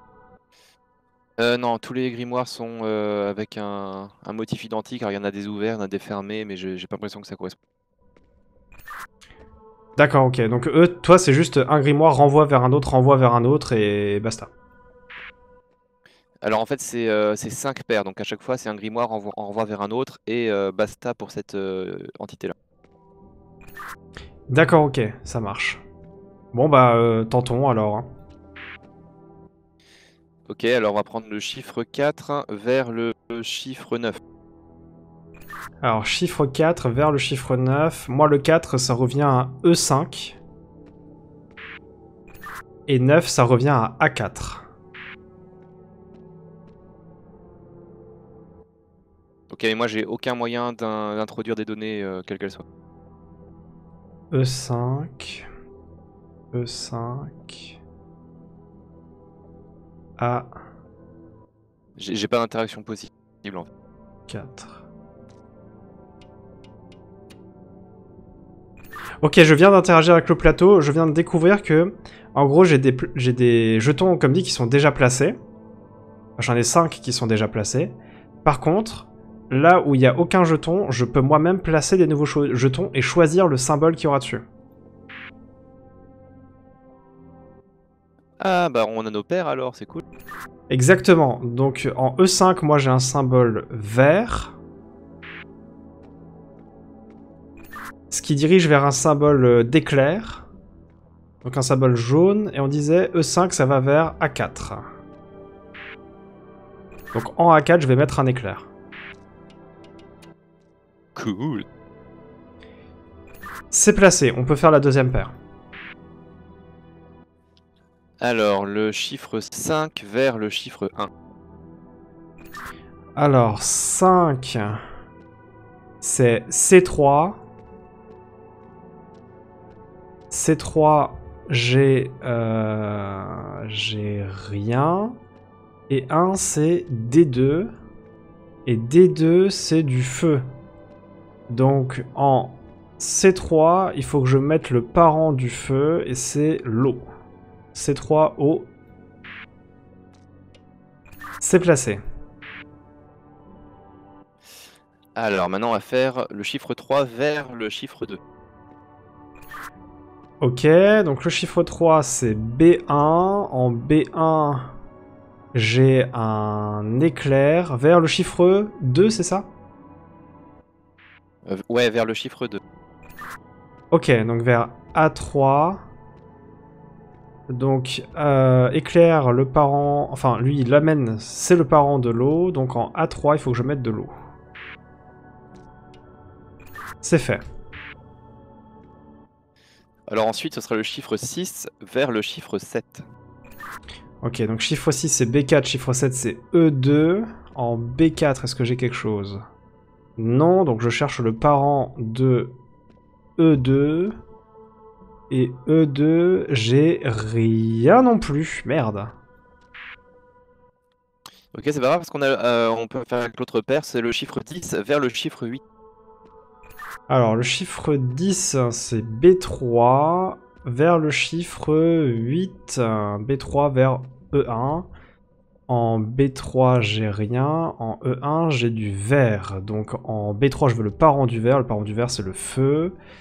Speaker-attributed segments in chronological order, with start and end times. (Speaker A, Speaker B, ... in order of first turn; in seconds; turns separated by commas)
Speaker A: 1.4-7.5, Speaker B: 10.0-14.5, Speaker A: 16.4-22.5, Speaker B: 24.5-25.8, Speaker B: 26.5-28.1, Speaker A: 30.5-34.2, Speaker B: 35.8-40.4, Speaker B: 42.9-44.6, Speaker A: 49.5-52.6, Speaker B: 54.3-55.5, Speaker B: 56.5-57.8, Speaker B: 60.2-60.5, Speaker A: 62.0-63.7, Speaker B: 64.3-64.8, Speaker B: 69.2-75.4, Speaker B: 76.4-84.4, Speaker A: 88.4-90.0, Speaker B: 90.7-94.5, Speaker B: 98.1-100.5, Speaker B: 101.4-104.8, Speaker B: 107.1-108.7, Speaker A: 111.1-111.7, Speaker B: 113.7-115.3, Speaker A: 118.2-121.1, Speaker B: 123.2-124.8, Speaker B: 126.0-127.4, Speaker B: 130.3-135.2, Speaker B: 135.9-137.7, Speaker B: 138.7-140.4, Speaker B: 141.5-147.1, Speaker B: 147.7-148.7, Speaker B: 151.4-152.0, Speaker A: 155.2-158.2, Speaker B: 160.4-164.7, Speaker B: 165.5-169.5, Speaker A: 171.4-172.6, Speaker B: 173.9-175.8, Speaker B: 177.5-184.1, Speaker B: 187.0-187.4, Speaker A: 190.1-193.1, Speaker B: 194.2-199.4, Speaker B: 200.2-202.5, Speaker B: 203.4-204.2, Speaker B: 205.3-209.1, Speaker A: 211.5-215.6, Speaker B: 217.1-224.9, Speaker B: 225.7-232.9